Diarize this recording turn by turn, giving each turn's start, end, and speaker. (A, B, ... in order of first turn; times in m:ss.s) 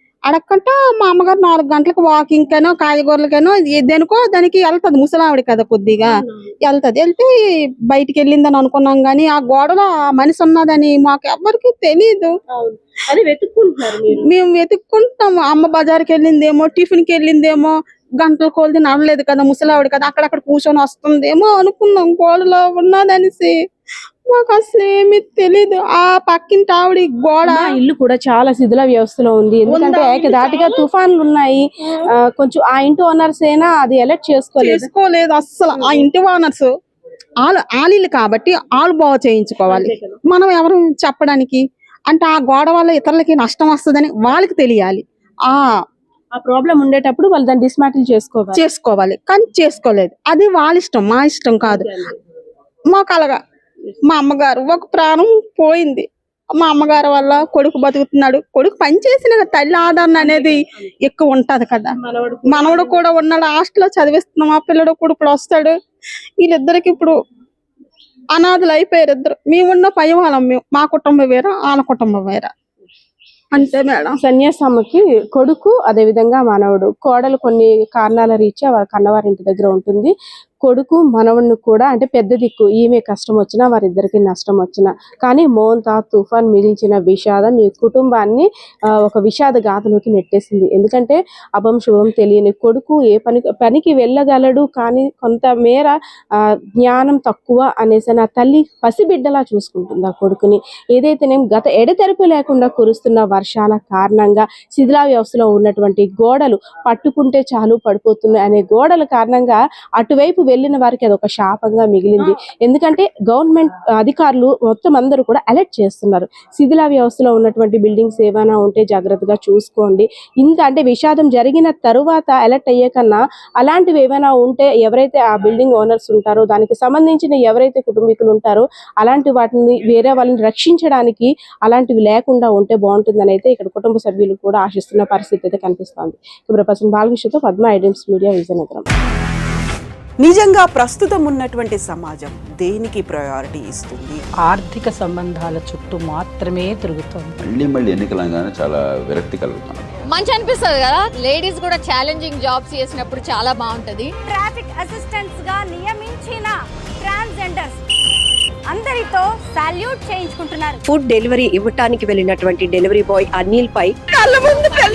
0:00.3-0:06.1 A
0:06.0-0:06.5 B
0:06.6-0:07.3 A
0:07.9-0:12.3 A
0:12.5-0:14.3 B
0:14.1-0:23.5 A
0:24.3-0:27.8 A
0:27.4-0:34.9 B
0:29.6-0:30.8 A
0:34.6-0:36.7 A
0:35.7-0:36.0 B
0:37.4-0:45.6 A
0:39.7-0:40.2 B
0:46.3-0:48.6 B
0:48.5-0:51.9 A
0:51.6-0:52.1 B
0:52.9-0:53.4 A
0:54.1-0:56.0 A
0:56.6-1:01.9 A
1:00.2-1:00.6 B
1:02.0-1:02.7 B
1:02.4-1:05.7 A
1:06.4-1:07.1 A
1:08.3-1:12.5 A
1:13.5-1:14.2 A
1:14.2-1:20.1 B
1:20.6-1:28.5 B
1:29.0-1:35.9 B
1:36.8-2:18.8 B
2:20.2-2:24.2 C
2:24.4-2:27.3 D
2:27.4-2:29.9 E
2:30.1-2:34.1 F
2:34.2-2:37.8 G
2:38.7-2:40.8 G
2:40.9-2:43.9 H